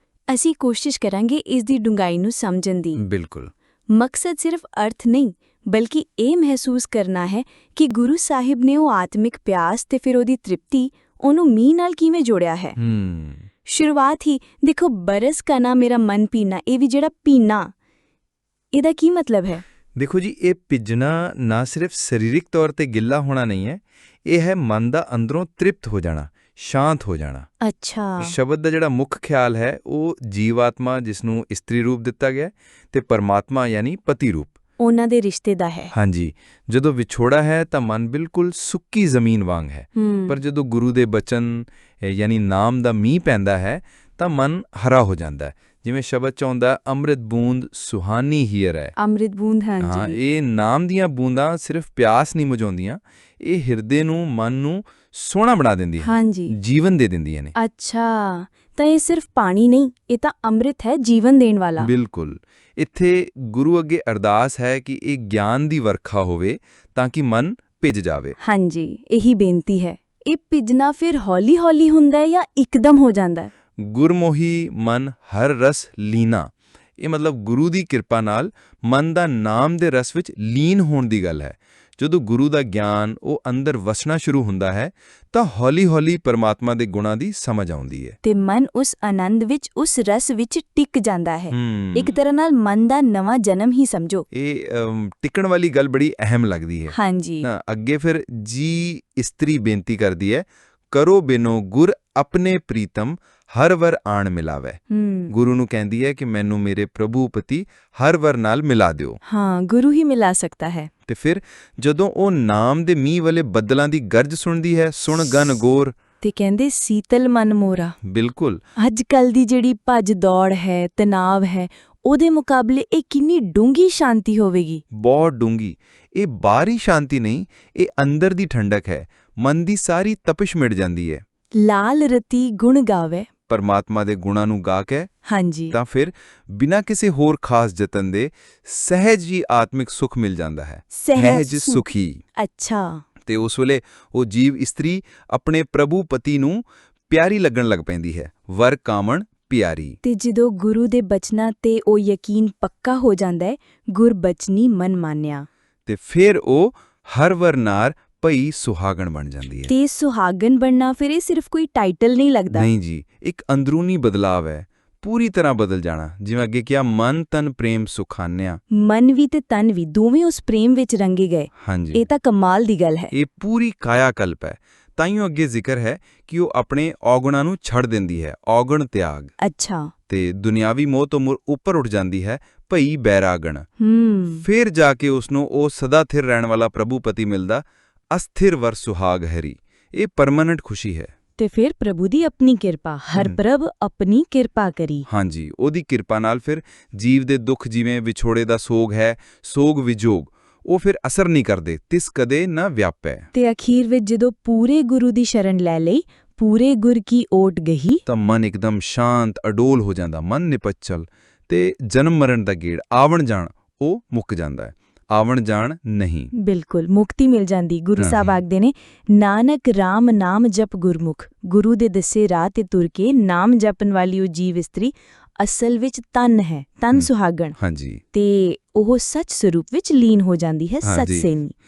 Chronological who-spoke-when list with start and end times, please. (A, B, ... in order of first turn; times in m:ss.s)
0:00.3-0:03.0 A
0:03.0-0:03.5 B
0:03.9-0:12.8 A
0:12.8-0:13.5 B
0:13.6-0:17.7 A
0:18.7-0:19.6 A
0:20.0-0:27.5 B
0:27.6-0:28.4 A
0:28.2-0:34.5 B
0:34.8-0:35.9 A
0:35.9-0:48.9 B
0:40.0-0:40.4 A
0:49.0-0:50.2 A
0:49.8-0:57.6 B
0:56.0-0:56.6 A
0:57.6-1:01.9 A
1:01.8-1:08.4 B
1:08.4-1:13.5 A
1:13.8-1:28.2 B
1:28.2-1:34.3 A
1:31.5-1:32.2 B
1:34.3-1:49.2 B
1:36.9-1:37.5 A
1:44.9-1:45.3 A
1:49.3-1:50.9 A
1:51.1-1:56.0 B
1:56.2-1:58.0 A
1:58.0-1:58.6 B
1:58.8-2:04.8 A
2:04.9-2:11.2 B
2:11.6-2:13.3 A
2:13.5-2:15.1 B
2:15.2-2:15.8 A
2:15.7-2:22.2 B
2:20.9-2:23.0 A
2:23.3-2:30.0 B
2:30.0-2:35.5 A
2:35.9-2:39.7 B
2:39.6-2:42.7 A
2:42.5-2:48.6 B
2:48.7-2:53.1 A
2:51.6-2:52.0 B
2:53.1-2:59.3 B
2:59.4-2:59.9 A
3:00.1-3:03.7 B
3:03.8-3:04.4 A
3:04.4-3:11.1 B
3:11.4-3:15.1 A
3:15.1-3:23.3 B
3:23.3-3:28.0 A
3:28.1-3:36.3 B
3:36.4-3:47.6 A
3:38.0-3:38.4 B
3:46.9-3:48.0 B
3:48.1-3:51.5 A
3:50.8-3:51.3 B